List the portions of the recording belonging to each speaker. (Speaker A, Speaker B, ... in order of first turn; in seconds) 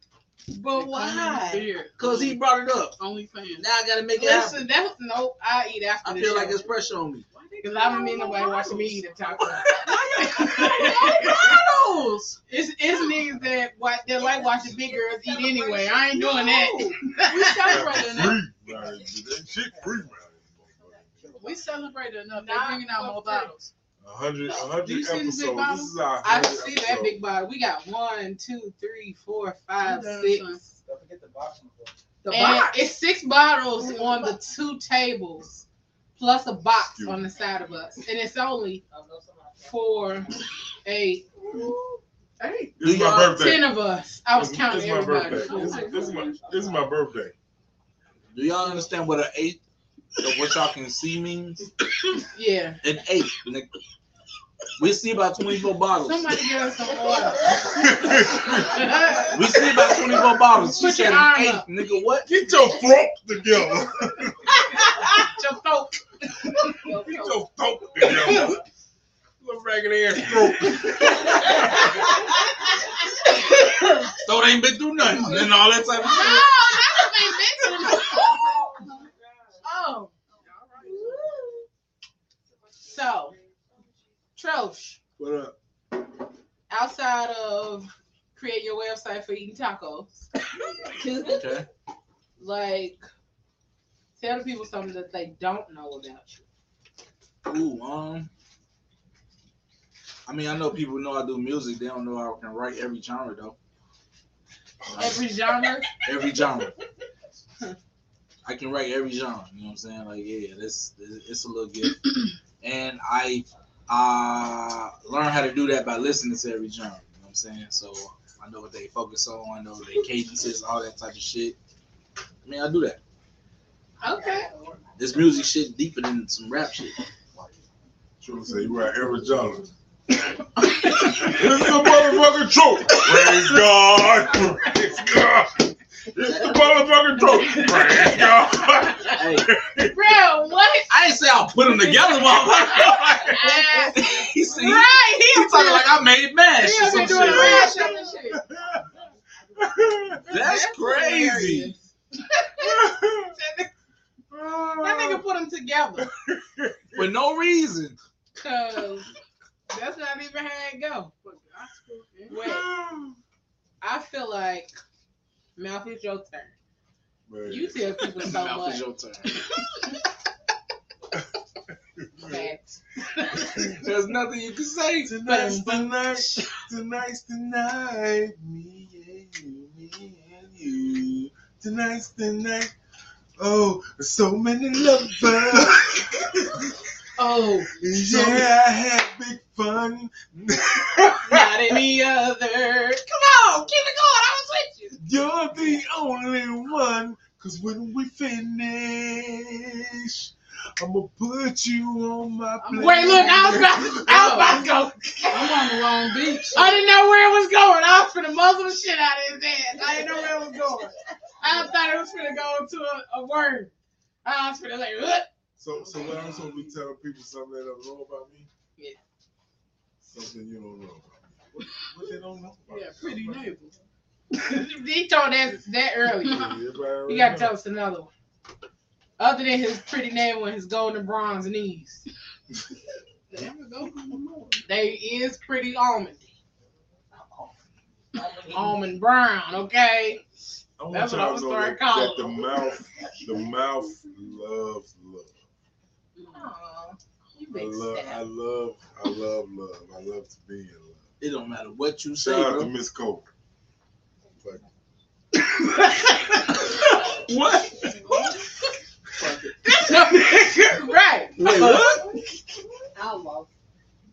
Speaker A: 0.5-1.6, 4.2-6.7, 7.6-11.6, 12.5-18.0, 22.3-23.5, 26.2-30.6, 32.3-35.5, 36.2-38.8, 39.6-40.3, 40.8-41.2, 43.3-46.0, 52.3-52.8, 56.0-59.3, 60.7-61.6, 64.5-67.1, 68.1-68.4, 73.2-74.0, 76.0-78.4, 79.6-80.1, 80.9-81.4, 82.8-83.3, 84.4-85.0, 86.7-90.3, 90.8-91.3, 92.4-93.0, 94.2-96.4, 105.0-105.8, 124.0-124.5, 137.7-138.2, 139.8-140.9, 141.8-145.9, 146.6-148.4, 150.3-151.8, 152.6-153.7, 154.8-156.1, 158.4-159.1, 159.7-161.1, 162.3-162.7, 163.8-164.7, 165.6-166.5, 167.5-168.8, 172.2-173.7, 175.2-176.5, 187.2-188.4, 191.2-195.0, 202.8-205.6, 206.5-213.7, 214.2-215.3, 224.4-226.5, 227.1-228.1, 229.2-232.0, 234.7-236.3, 238.5-240.2, 240.9-242.4, 246.2-248.2, 259.6-261.9
Speaker B: 0.8-2.4, 3.0-3.7, 7.3-12.4, 16.1-18.4, 21.4-23.7, 24.6-25.9, 29.8-30.6, 32.2-32.8, 42.4-42.7, 45.2-46.4, 59.0-59.2, 66.8-67.3, 80.5-81.3, 143.4-144.0, 147.2-148.3, 161.2-162.4, 187.2-187.7, 202.6-204.7, 205.3-206.8, 215.8-216.7, 222.7-223.7, 226.2-226.6, 233.3-234.4
Speaker C: 2.0-3.0, 3.6-4.6, 6.0-7.2, 42.8-43.4, 48.3-49.6, 50.2-51.6, 52.8-53.7, 54.8-56.2, 59.3-62.3, 74.2-76.5, 91.2-91.7, 97.4-98.3, 100.3-103.5, 104.9-105.2, 106.0-106.7, 108.4-112.1, 112.6-121.6, 122.4-123.0, 125.0-127.0, 139.1-139.5, 140.9-143.4, 143.9-147.7, 150.3-151.7, 156.9-158.0, 168.2-169.3, 173.8-175.1, 251.2-252.7, 257.0-257.9, 261.4-262.1
Speaker D: 15.3-16.3, 80.3-81.2, 82.7-83.9, 262.9-263.4
Speaker E: 17.6-21.3, 24.0-27.2, 36.8-37.2, 42.8-43.7, 44.3-47.3, 57.6-59.0, 62.2-64.5, 66.8-68.6, 69.4-71.9, 85.2-85.5, 104.8-105.3, 128.2-129.7, 131.1-140.0, 146.9-148.8, 149.6-150.2, 152.6-153.3, 154.3-155.2, 156.0-157.1, 162.3-163.2, 167.3-168.1, 172.0-172.5, 173.4-173.8, 175.0-182.7, 183.4-186.8, 187.7-191.5, 195.0-204.4, 215.6-218.5, 220.0-223.5, 226.2-227.6, 240.8-245.4, 247.5-251.1, 252.2-253.2
Speaker F: 18.6-19.1, 19.6-20.1, 20.8-21.8, 30.8-32.0, 39.0-39.5